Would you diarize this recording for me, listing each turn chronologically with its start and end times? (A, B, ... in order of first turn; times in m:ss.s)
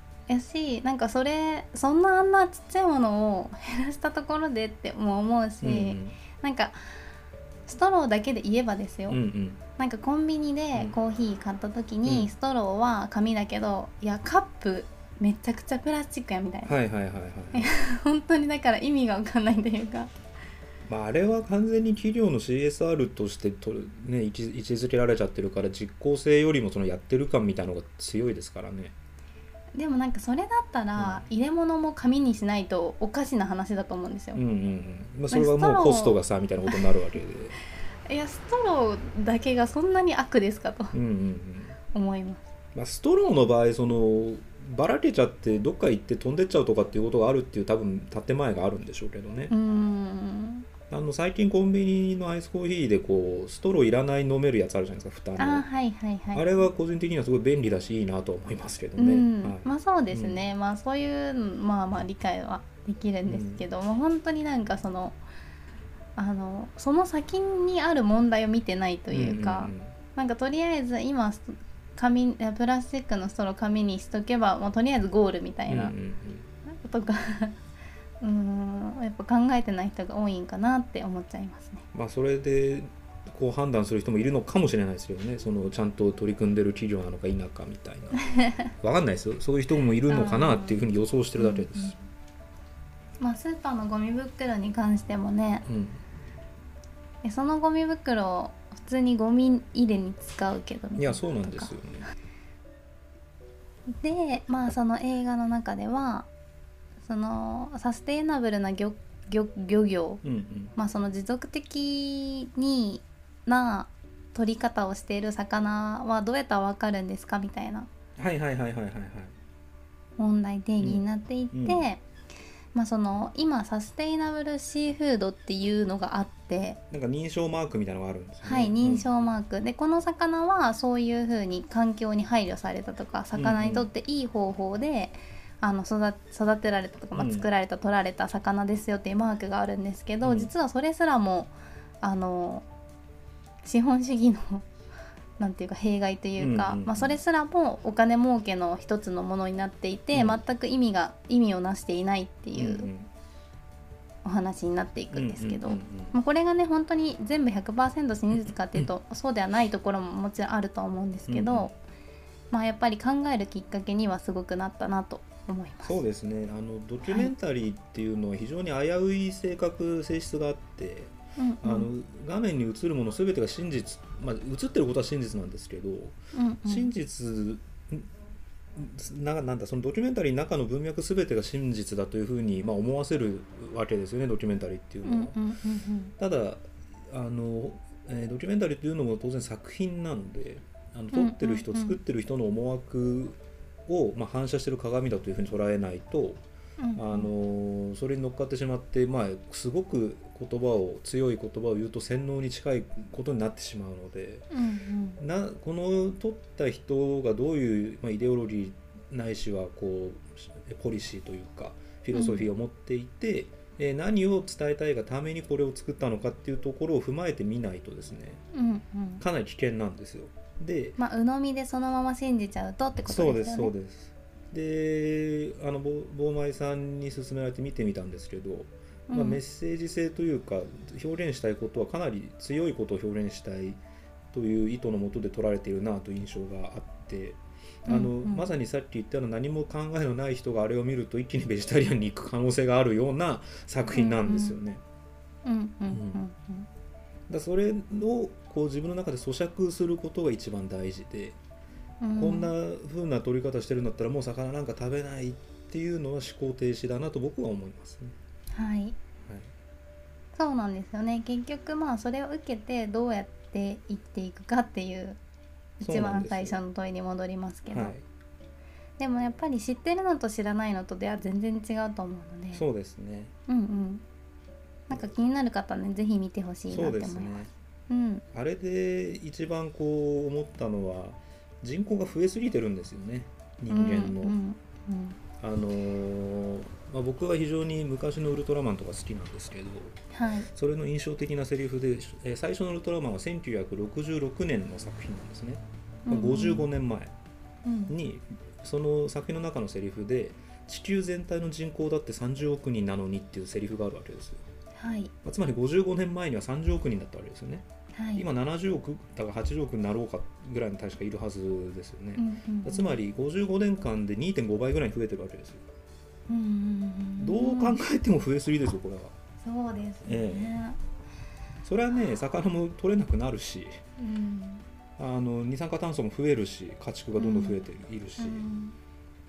0:00.3-0:07.1 A
0:05.6-0:06.2 B
0:07.6-0:09.2 A
0:09.1-0:09.6 B
0:09.8-0:16.7 A
0:12.0-0:12.3 B
0:16.6-0:17.7 B
0:17.5-0:20.1 A
0:20.8-0:28.9 B
0:29.7-0:34.4 A
0:31.0-0:31.3 B
0:34.3-0:37.6 B
0:35.3-0:36.8 A
0:38.1-0:41.0 A
0:40.9-0:41.8 B
0:41.9-0:42.5 A
0:42.7-0:49.5 B
0:49.5-0:50.7 A
0:50.9-0:55.6 B
0:55.4-0:56.4 A
0:56.3-1:00.4 B
0:59.0-1:05.2 A
1:03.3-1:03.6 B
1:06.2-1:15.9 A
1:09.1-1:09.9 B
1:15.7-1:16.5 B
1:16.6-1:17.6 A
1:18.2-1:21.8 A
1:21.9-1:28.2 B
1:28.3-1:28.7 A
1:28.8-1:32.0 B
1:30.1-1:30.8 A
1:31.4-1:32.0 A
1:33.2-1:35.6 A
1:35.6-1:36.0 B
1:37.2-1:41.7 A
1:41.0-1:42.0 B
1:44.0-1:46.3 A
1:47.0-1:50.2 A
1:50.2-1:50.7 B
1:50.8-1:57.9 A
1:58.2-1:59.3 B
2:00.2-2:02.0 A
2:00.8-2:01.8 B
2:02.7-2:06.8 A
2:06.9-2:09.1 B
2:08.4-2:22.7 A
2:13.3-2:13.9 B
2:17.1-2:17.5 B
2:20.2-2:20.5 B
2:23.6-2:24.7 A
2:25.4-2:32.9 A
2:26.4-2:27.1 B
2:30.1-2:30.4 B
2:32.5-2:33.1 B
2:34.2-2:41.7 A
2:35.1-2:36.1 B
2:38.4-2:38.9 B
2:41.3-2:41.7 B
2:42.5-2:46.0 A
2:45.8-2:58.1 B
2:47.1-2:47.3 A
2:51.4-2:51.9 A
2:56.3-2:56.9 A
2:58.7-3:05.4 B
3:05.0-3:06.1 A
3:06.2-3:16.4 B
3:11.1-3:12.0 A
3:16.8-3:17.3 A
3:17.0-3:24.5 B
3:24.5-3:25.2 A
3:25.2-3:38.4 B
3:32.1-3:32.5 A
3:38.5-3:39.2 A
3:39.2-3:41.0 B
3:41.0-3:43.7 A
3:43.0-3:53.8 B
3:49.1-3:49.4 A
3:54.3-4:04.8 B
3:57.8-3:58.5 A
4:03.9-4:04.6 A
4:05.4-4:06.7 A
4:05.9-4:06.2 B
4:07.3-4:11.4 B
4:12.0-4:12.5 A
4:12.2-4:18.2 B
4:18.5-4:19.0 A
4:19.2-4:19.5 B
4:20.4-4:25.2 A
4:25.8-4:27.9 A
4:25.8-4:26.6 B
4:27.7-4:28.0 B
4:29.0-4:32.6 A
4:32.5-4:33.3 B
4:33.5-4:34.0 A
4:34.9-4:38.2 A
4:36.7-4:37.5 B
4:38.3-4:44.4 B
4:43.7-4:45.2 A
4:45.4-4:50.0 B
4:50.1-4:50.5 A
4:50.5-4:57.1 B
4:56.0-4:56.6 A
4:57.6-4:57.9 A
4:57.9-5:04.4 B
5:04.8-5:05.1 A
5:05.2-5:15.6 B
5:07.9-5:08.2 A
5:12.2-5:12.8 A
5:16.3-5:17.8 A
5:17.2-5:19.2 B
5:19.4-5:20.8 A
5:20.0-5:20.5 B
5:21.6-5:23.8 B
5:24.0-5:24.6 A
5:25.0-5:28.4 B
5:27.2-5:27.6 A
5:28.2-5:28.8 A